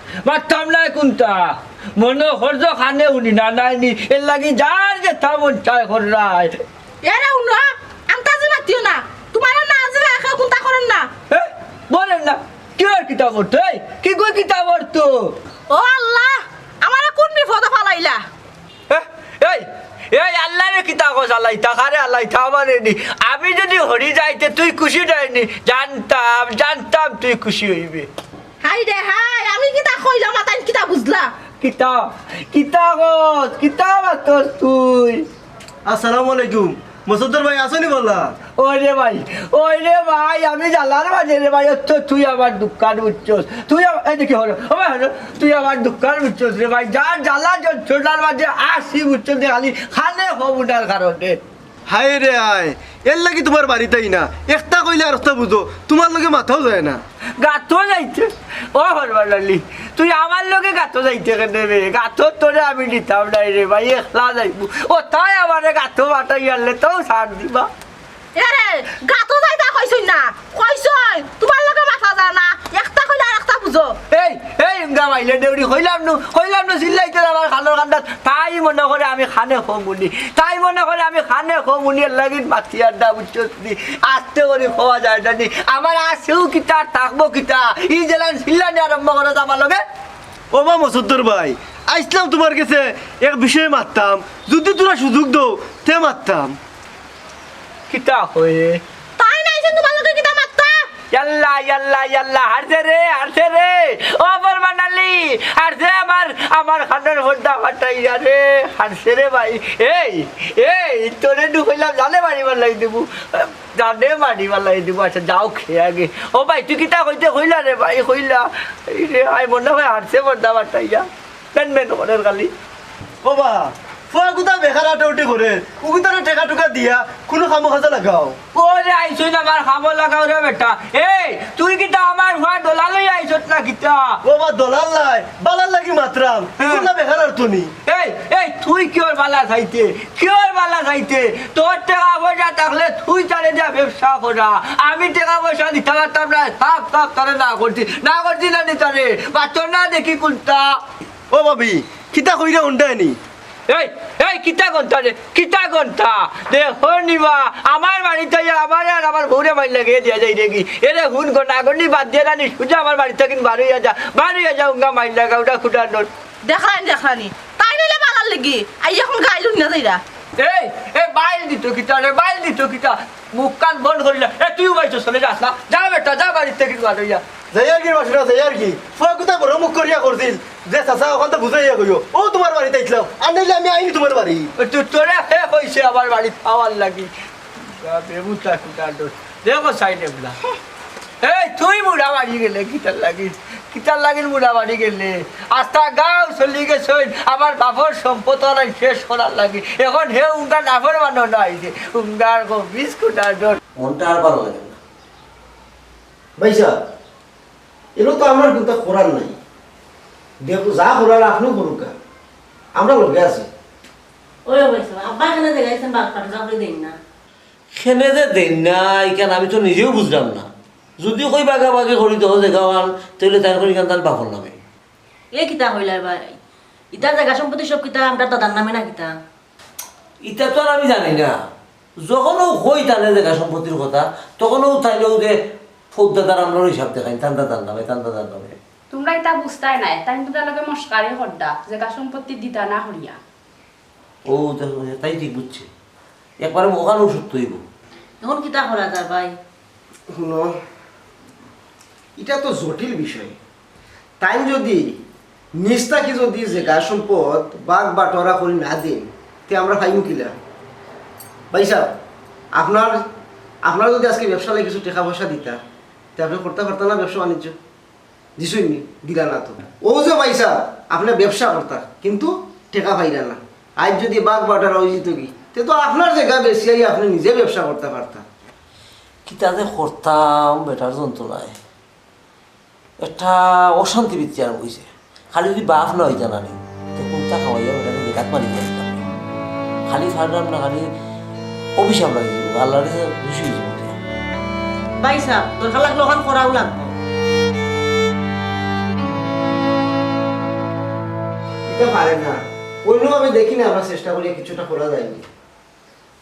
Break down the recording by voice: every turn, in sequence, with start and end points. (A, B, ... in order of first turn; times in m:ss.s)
0:00.2-0:06.6 A
0:07.0-0:11.1 B
0:11.3-0:15.4 A
0:15.7-0:18.2 B
0:18.9-0:28.1 A
0:28.6-0:31.3 B
0:31.6-0:35.2 A
0:35.9-0:38.4 C
0:38.6-0:51.4 A
0:51.9-0:57.0 C
0:57.4-1:07.7 A
1:08.4-1:14.0 B
1:14.1-1:29.8 A
1:30.5-1:36.6 C
1:37.9-1:38.8 A
1:39.2-1:40.9 B
1:41.1-2:02.5 A
2:03.2-2:08.4 C
2:08.6-2:14.2 A
2:14.2-2:17.7 C
2:17.9-2:30.8 A
2:31.3-2:33.2 C
2:33.7-2:46.1 A
2:46.4-2:50.0 B
2:50.4-2:57.2 A
2:57.5-3:04.5 C
3:04.6-3:10.4 A
3:11.2-3:23.6 A
3:23.8-3:24.8 D
3:26.4-3:26.8 E
3:28.0-3:29.4 E
3:30.4-3:31.9 E
3:32.8-3:33.5 E
3:34.5-3:37.0 F
3:37.7-3:40.5 D
3:41.0-3:44.6 D
3:45.3-3:46.4 F
3:46.9-3:49.1 F
3:50.2-3:51.4 D
3:52.0-3:55.4 D
3:55.9-3:58.6 D
3:58.9-4:03.2 G
4:04.3-4:05.7 D
4:06.4-4:07.6 D
4:08.2-4:09.3 F
4:10.1-4:10.6 E
4:12.2-4:13.4 E
4:14.2-4:15.0 E
4:15.6-4:20.3 E
4:21.5-4:21.9 E
4:22.6-4:23.0 E
4:23.6-4:25.6 E
4:26.2-4:27.6 E
4:28.4-4:38.2 E
4:39.3-4:41.6 D
4:43.0-4:49.1 D
4:49.9-4:50.9 D
4:51.8-4:54.0 D
4:55.0-4:56.9 F
5:01.7-5:05.2 E